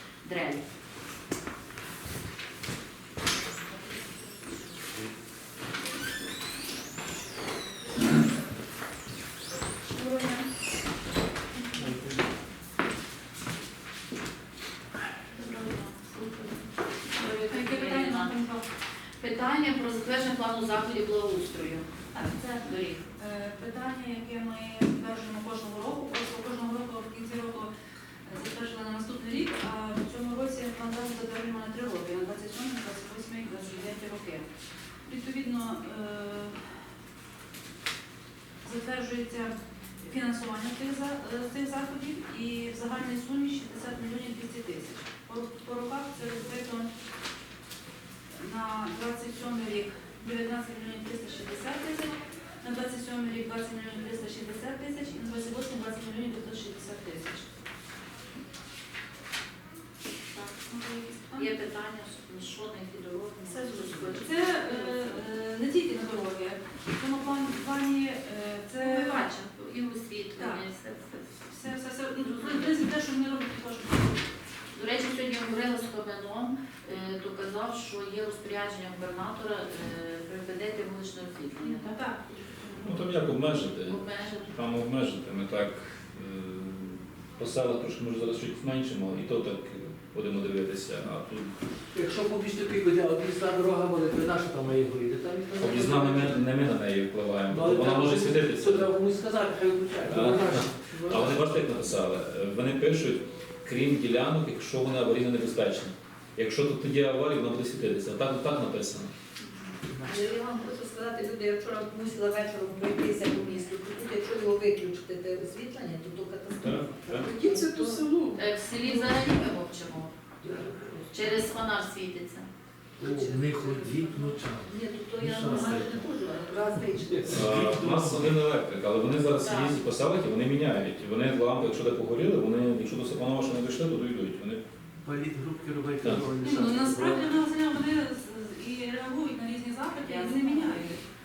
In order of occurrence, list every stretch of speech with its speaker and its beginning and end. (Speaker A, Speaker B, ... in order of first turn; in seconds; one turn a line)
Speaker A: 0.2-0.6
Speaker B: 11.8-12.2
Speaker A: 15.3-16.7
Speaker C: 17.1-18.6
Speaker A: 17.2-18.3
Speaker A: 19.2-23.0
Speaker C: 23.2-27.7
Speaker C: 28.2-34.5
Speaker C: 35.1-36.7
Speaker C: 38.6-46.9
Speaker C: 48.4-57.5
Speaker A: 60.3-60.6
Speaker C: 60.7-61.6
Speaker A: 61.3-65.2
Speaker C: 63.5-69.2
Speaker A: 68.8-71.4
Speaker C: 70.4-70.6
Speaker C: 71.5-74.3
Speaker A: 72.2-72.8
Speaker A: 74.7-82.0
Speaker C: 81.6-82.8
Speaker D: 82.8-91.5
Speaker A: 83.8-84.5
Speaker B: 91.9-96.4
Speaker D: 95.6-98.9
Speaker B: 97.5-101.5
Speaker D: 100.0-109.1
Speaker E: 110.0-118.2
Speaker D: 116.6-117.3
Speaker B: 117.9-118.3
Speaker A: 118.3-120.1
Speaker E: 118.8-119.2
Speaker B: 120.4-121.0
Speaker E: 120.5-120.8
Speaker A: 121.1-122.5
Speaker B: 123.0-126.1
Speaker E: 123.0-127.4
Speaker B: 127.0-128.4
Speaker D: 127.3-134.6
Speaker A: 129.3-129.8
Speaker B: 135.0-137.4
Speaker C: 136.4-141.0
Speaker A: 140.0-141.0